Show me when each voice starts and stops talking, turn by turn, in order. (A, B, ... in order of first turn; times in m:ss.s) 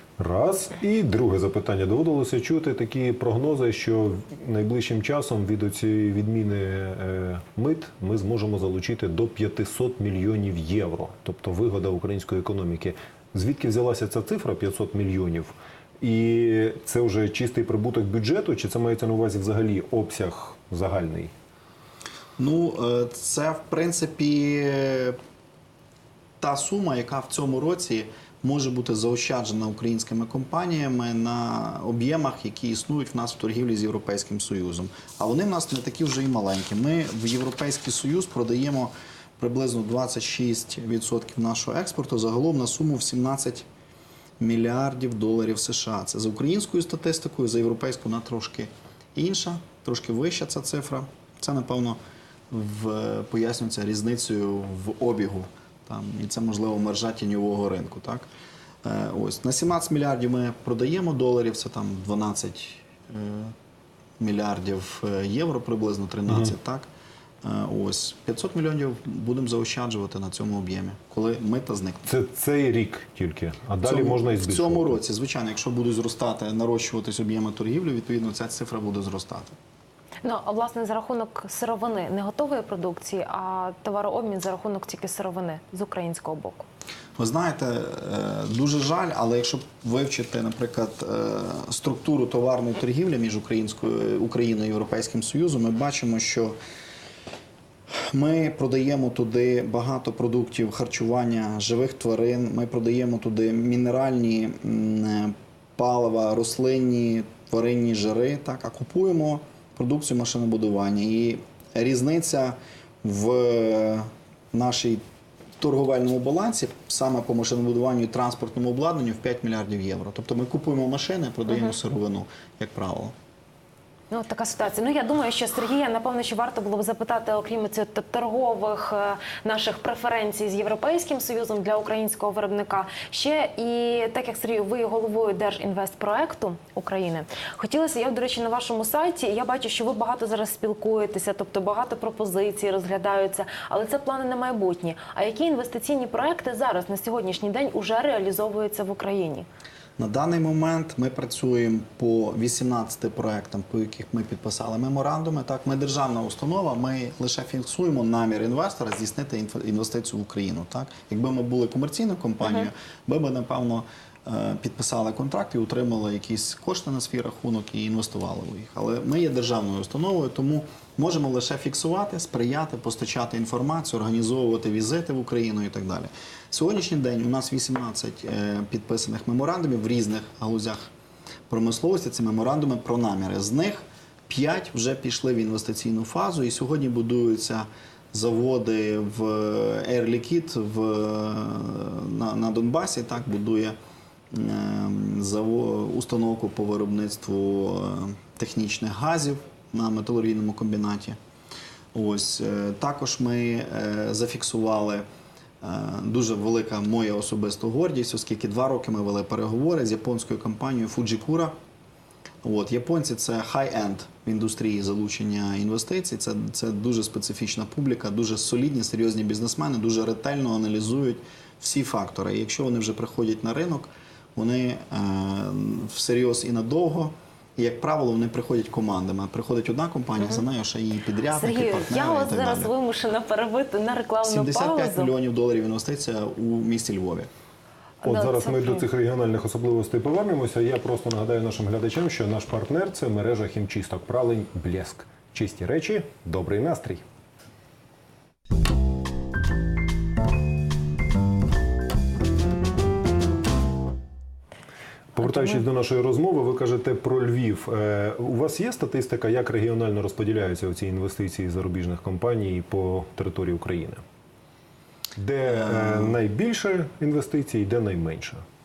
0:00.2-0:21.3 A
0:22.4-0:25.2 B
0:26.4-0:43.6 B
0:44.4-0:52.0 B
0:52.5-0:58.3 B
0:58.8-1:03.5 B
1:04.2-1:06.9 B
1:07.4-1:12.1 B
1:12.0-1:15.0 A
1:13.8-1:19.6 B
1:20.2-1:26.6 C
1:27.2-1:36.6 B
1:37.9-1:55.0 B
1:55.6-2:03.1 B
2:04.1-2:29.5 C
2:30.0-3:00.9 B
3:01.5-3:13.8 B
3:14.3-3:21.2 B
3:21.9-3:25.0 B
3:25.6-3:31.5 B
3:32.4-3:52.7 B
3:51.3-3:55.1 C
3:54.2-3:57.3 B
3:58.0-3:58.8 C
3:58.0-4:07.0 A
4:15.1-4:24.0 A
4:25.2-4:28.4 A
4:25.5-4:26.2 B